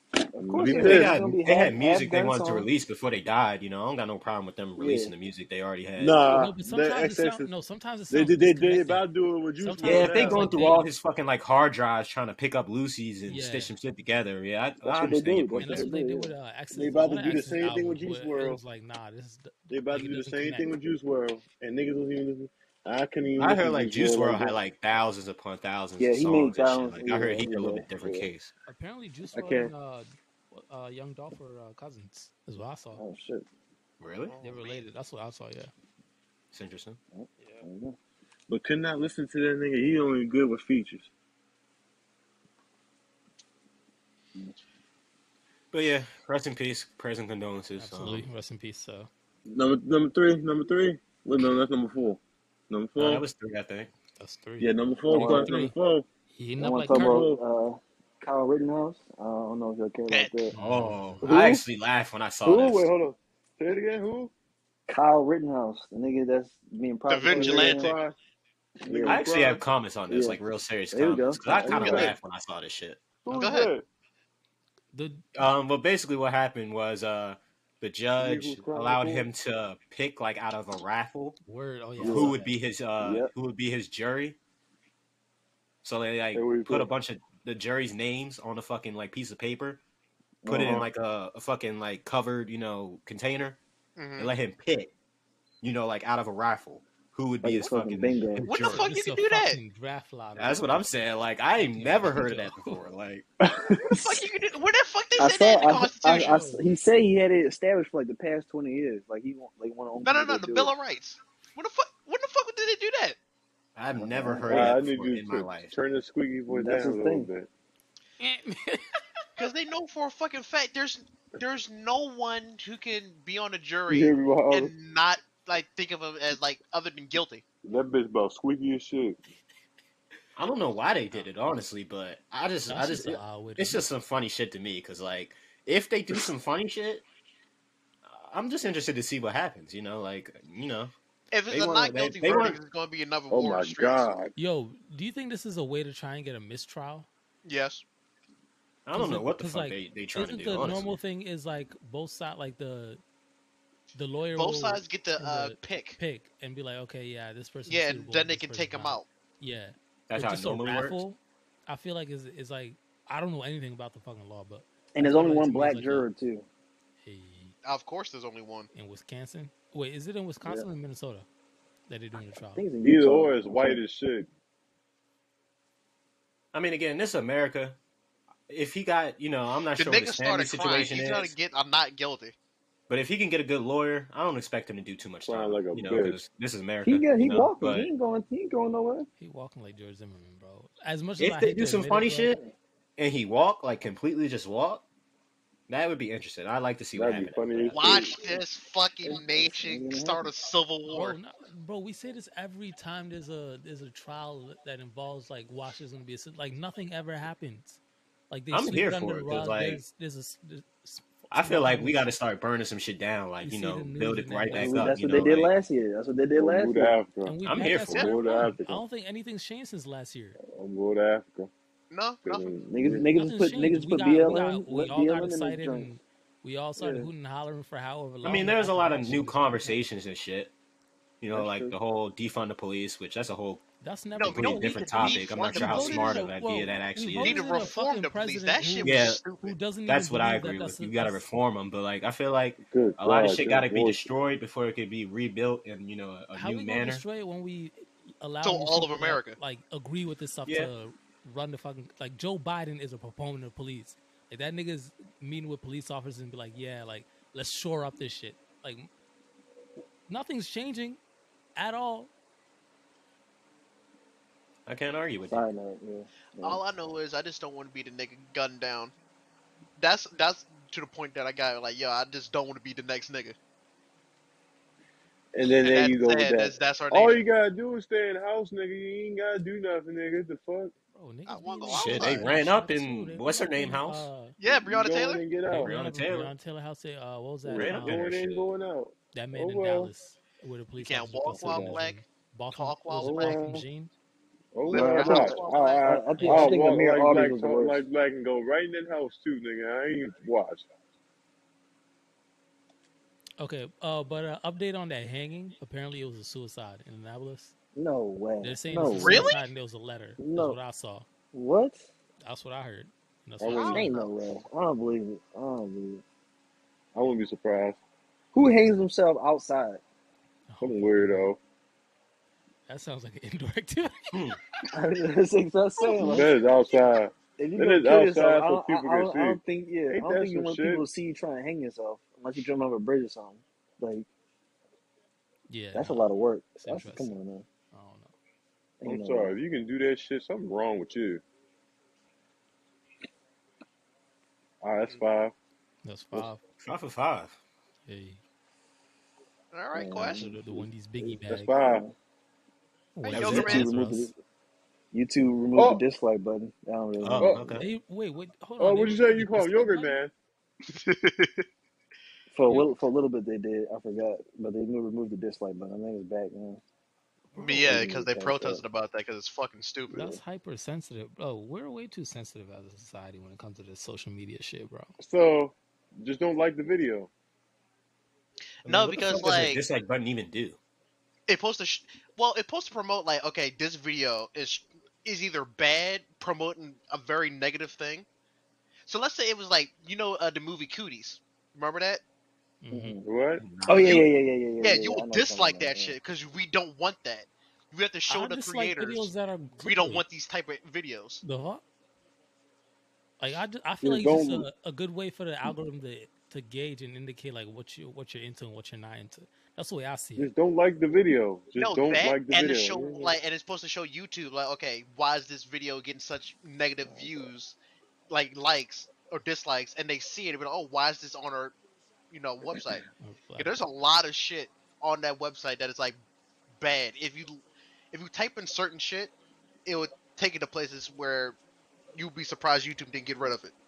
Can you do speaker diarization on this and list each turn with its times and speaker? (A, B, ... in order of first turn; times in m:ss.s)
0:00.3-0:02.7 A
0:00.4-0:01.1 B
0:00.7-0:06.3 C
0:04.8-0:05.1 A
0:06.0-0:07.5 B
0:06.3-0:10.9 D
0:08.1-0:10.6 B
0:09.8-0:15.9 C
0:13.3-0:13.7 D
0:14.8-0:16.3 A
0:15.6-0:20.7 D
0:16.7-0:18.6 B
0:19.7-0:24.6 B
0:23.4-0:28.5 C
0:26.0-0:28.2 A
0:28.7-0:33.0 D
0:32.9-0:33.4 A
0:34.0-0:34.3 C
0:34.3-0:34.8 E
0:34.4-0:35.7 D
0:36.5-0:37.0 C
0:37.1-0:38.0 A
0:37.4-0:37.6 D
0:38.5-0:41.1 B
0:45.7-0:48.3 C
0:47.8-0:49.1 D
0:49.5-0:53.2 B
0:53.0-0:53.9 C
0:54.2-0:55.7 D
0:54.6-0:56.0 B
0:55.1-0:55.5 A
0:56.3-0:57.2 D
0:56.6-1:00.5 A
0:56.9-0:57.4 B
1:00.1-1:00.4 E
1:00.5-1:01.2 D
1:00.5-1:02.9 C
1:01.2-1:01.6 B
1:02.4-1:04.3 B
1:04.9-1:08.0 A
1:07.1-1:08.0 E
1:07.2-1:08.2 B
1:08.8-1:09.3 A
1:08.8-1:09.6 B
1:09.0-1:13.1 C
1:10.1-1:10.4 A
1:10.9-1:12.0 A
1:11.5-1:12.2 B
1:11.7-1:12.1 E
1:13.2-1:13.8 B
1:13.3-1:13.7 E
1:14.9-1:15.2 D
1:15.3-1:21.4 C
1:18.2-1:19.3 B
1:21.4-1:22.5 D
1:22.0-1:24.4 C
1:22.0-1:22.3 B
1:23.0-1:23.3 A
1:25.8-1:29.8 C
1:26.3-1:26.9 B
1:30.4-1:30.9 A
1:30.4-1:33.6 C
1:30.5-1:30.8 B
1:34.0-1:34.3 E
1:34.2-1:34.9 C
1:35.6-1:38.8 C
1:37.4-1:38.5 A
1:38.4-1:40.8 D
1:38.5-1:39.6 E
1:40.4-1:43.3 C
1:41.6-1:42.8 D
1:43.4-1:44.2 A
1:43.8-1:46.4 E
1:45.2-1:50.7 A
1:46.2-1:46.6 D
1:50.0-1:53.2 E
1:53.8-1:55.7 C
1:54.0-1:54.8 A
1:54.5-1:57.5 B
1:56.5-1:57.3 A
1:58.2-1:59.0 D
1:59.4-2:07.4 E
2:03.9-2:04.7 B
2:07.6-2:09.2 B
2:10.4-2:17.0 C
2:12.7-2:13.8 D
2:18.0-2:20.9 C
2:21.3-2:24.1 E
2:21.5-2:22.6 C
2:23.3-2:24.3 B
2:24.4-2:27.1 D
2:27.4-2:27.8 E
2:28.8-2:30.9 C
2:28.9-2:33.0 D
2:33.9-2:46.1 D
2:34.3-2:36.0 E
2:37.7-2:39.0 E
2:40.1-2:41.0 C
2:44.9-2:46.5 A
2:47.0-2:47.5 D
2:47.6-2:48.7 E
2:48.7-2:51.3 D
2:51.9-2:52.6 D
2:52.3-2:53.8 A
2:52.8-2:54.3 B
2:56.5-2:57.8 C
2:58.5-3:01.3 C
2:59.8-3:02.3 E
3:02.9-3:07.9 C
3:05.2-3:06.2 B
3:06.8-3:09.1 A
3:09.2-3:12.4 D
3:11.2-3:12.4 C
3:13.0-3:14.8 C
3:15.7-3:17.8 C
3:16.9-3:18.2 B
3:17.7-3:21.2 E
3:19.0-3:20.3 A
3:20.9-3:32.0 D
3:28.5-3:29.8 C
3:31.3-3:35.5 C
3:33.4-3:35.0 D
3:34.5-3:37.0 A
3:36.3-3:37.4 B
3:37.2-3:40.4 D
3:37.4-3:38.1 C
3:37.9-3:38.8 B
3:40.4-3:41.5 B
3:41.9-3:42.5 E
3:42.2-3:43.1 B
3:42.7-3:45.9 A
3:43.1-3:49.8 D
3:46.8-3:47.1 A
3:48.2-3:50.5 C
3:51.2-3:53.6 C
3:51.3-3:51.8 A
3:53.8-4:01.2 D
3:54.2-3:56.3 E
3:54.2-3:57.4 C
3:57.2-3:59.6 E
3:58.8-3:59.2 C
3:59.8-4:07.0 C
4:02.6-4:04.1 B
4:06.3-4:18.9 D
4:08.4-4:09.4 E
4:10.4-4:10.7 C
4:20.1-4:21.0 D
4:21.6-4:22.1 D
4:24.7-4:25.4 C
4:25.3-4:26.6 A
4:26.4-4:28.9 E
4:29.8-4:33.4 E
4:35.3-4:40.7 B
4:35.4-4:37.2 E
4:40.9-4:44.4 D
4:41.3-4:42.3 E
4:41.7-4:44.1 C
4:44.4-4:45.2 E
4:44.5-4:45.8 B
4:45.5-4:48.1 D
4:45.6-4:46.3 C
4:47.5-4:49.9 B
4:47.5-4:48.5 C
4:49.1-4:53.9 D
4:50.8-4:53.4 E
4:51.4-4:51.8 A
4:53.1-4:53.5 B
4:53.1-4:53.5 A
4:54.5-5:00.7 B
4:54.7-4:57.8 A
4:54.7-4:56.5 E
4:56.2-4:56.6 D
5:03.4-5:07.5 D
5:07.7-5:09.3 A
5:08.4-5:11.1 D
5:09.0-5:09.5 E
5:10.2-5:10.6 A
5:11.3-5:11.8 A
5:12.2-5:13.9 D
5:13.4-5:13.8 B
5:13.5-5:14.1 E
5:13.7-5:16.0 A
5:16.9-5:17.8 B
5:18.3-5:19.8 A
5:20.5-5:21.3 D
5:20.6-5:21.4 B
5:22.7-5:24.3 D
5:24.1-5:24.4 C
5:24.7-5:26.3 A
5:25.9-5:30.8 B
5:27.4-5:34.1 A
5:35.5-5:37.1 D
5:35.7-5:37.4 A
5:37.7-5:38.1 D
5:38.8-5:39.4 A
5:38.8-5:41.2 B
5:44.6-5:45.3 B
5:45.8-5:46.4 D
5:46.6-5:47.4 C
5:47.8-5:48.2 D
5:49.5-5:50.2 E
5:49.7-5:50.6 A
5:50.1-5:51.6 D
5:51.0-5:51.8 B
5:51.6-5:51.9 A
5:52.9-5:54.1 D
5:53.0-5:53.7 E
5:53.1-5:53.6 C
5:53.2-5:54.1 A
5:54.9-5:57.6 A
5:55.5-5:55.8 B
5:57.0-5:57.7 C
5:57.2-5:57.5 B
5:57.6-6:00.0 D
5:58.6-6:00.1 B
6:00.7-6:01.4 E
6:02.3-6:06.6 A
6:02.5-6:02.7 D
6:07.3-6:08.6 A
6:07.3-6:10.0 E
6:09.9-6:14.9 D
6:15.0-6:17.1 B
6:18.6-6:19.6 E
6:18.6-6:20.6 C
6:21.3-6:28.0 E
6:28.9-6:32.0 E
6:32.6-6:33.0 D
6:32.7-6:33.0 A
6:33.0-6:33.4 B
6:33.4-6:34.1 C
6:33.6-6:36.0 A
6:34.6-6:41.2 E
6:38.1-6:40.0 D
6:41.2-6:41.6 D
6:43.2-6:50.3 D
6:43.8-6:44.5 B
6:50.2-6:53.2 B
6:51.6-6:57.6 E
6:56.9-6:57.3 B
6:58.1-7:01.5 E
7:02.1-7:02.8 E
7:03.0-7:03.5 D
7:03.4-7:06.0 E
7:06.6-7:09.1 E
7:09.6-7:11.4 E
7:11.9-7:13.5 E